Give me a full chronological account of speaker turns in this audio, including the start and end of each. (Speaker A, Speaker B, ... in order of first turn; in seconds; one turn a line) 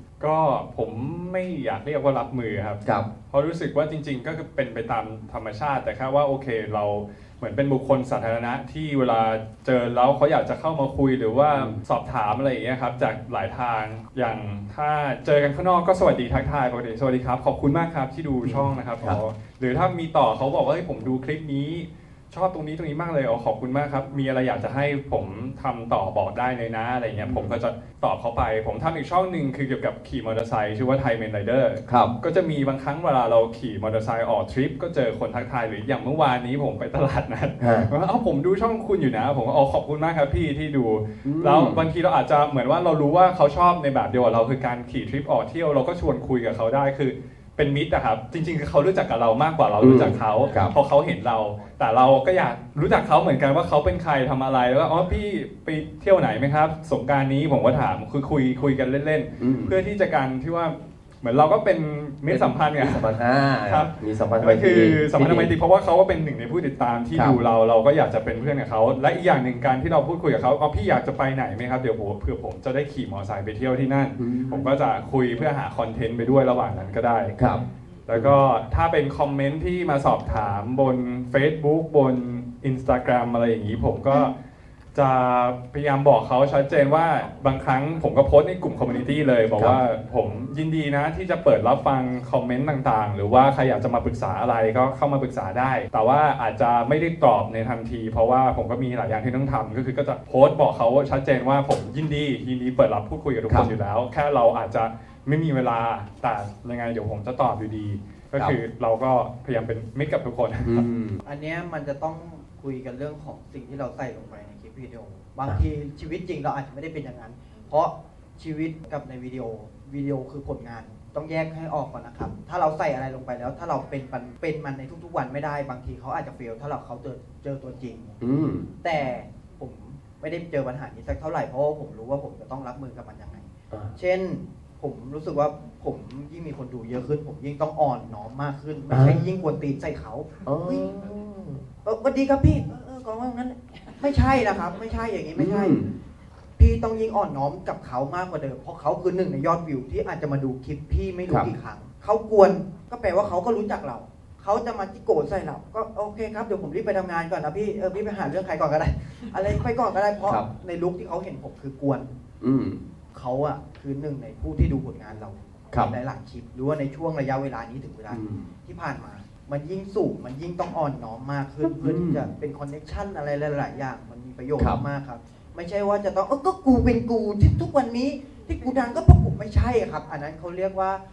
Speaker A: 0.2-77.4
Speaker B: 11.5-11.8
Speaker B: 18.4-19.2
Speaker B: 27.2-27.6
Speaker B: 31.9-32.1
Speaker B: 37.6-37.9
Speaker B: 41.2-41.9
Speaker B: 49.8-50.7
Speaker B: 59.4-59.8
Speaker B: 62.3-65.5
Speaker B: 74.2-74.7
Speaker B: 77.4-78.3
Speaker A: 78.1-84.3
Speaker A: 85.0-110.9
Speaker B: 110.7-111.2
Speaker C: 111.2-128.2
Speaker B: 128.2-128.7
Speaker C: 128.8-140.9
Speaker B: 138.9-139.2
Speaker B: 140.4-141.6
Speaker C: 141.8-145.8
Speaker B: 145.4-145.9
Speaker C: 146.6-162.1
Speaker B: 162.4-162.8
Speaker C: 163.1-181.0
Speaker B: 168.1-168.5
Speaker B: 171.8-172.3